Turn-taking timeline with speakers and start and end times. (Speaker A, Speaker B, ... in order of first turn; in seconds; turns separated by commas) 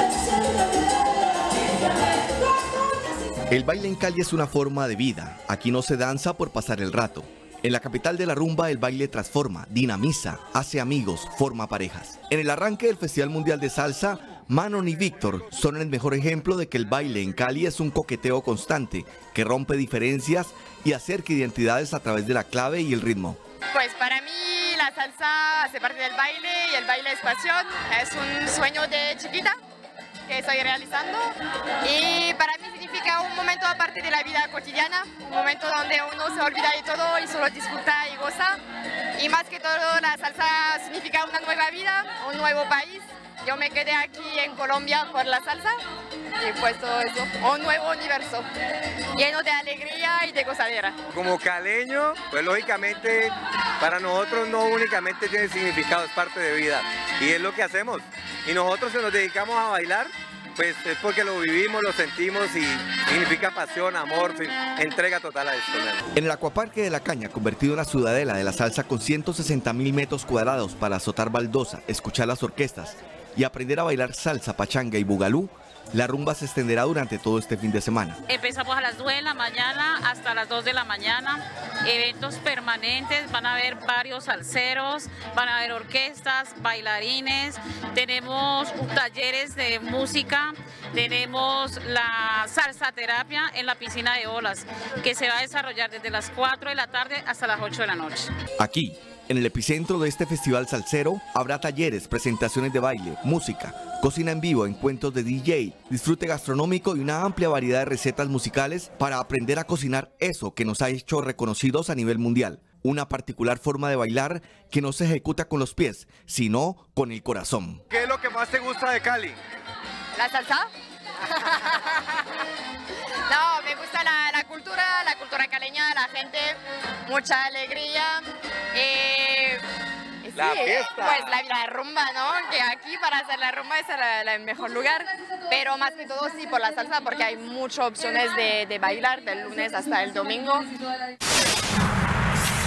Speaker A: 3.5-23.4, Speaker B: 23.7-29.6, Speaker B: 30.3-38.6, Speaker B: 39.2-45.8, Speaker B: 46.4-48.5, Speaker B: 49.1-51.0, Speaker C: 51.1-66.0, Speaker A: 66.2-78.2, Speaker D: 78.3-98.3, Speaker A: 98.6-117.8, Speaker C: 117.9-119.4, Speaker B: 120.2-120.7, Speaker B: 121.2-122.4, Speaker B: 123.3-129.6, Speaker B: 130.2-140.7, Speaker C: 130.3-131.4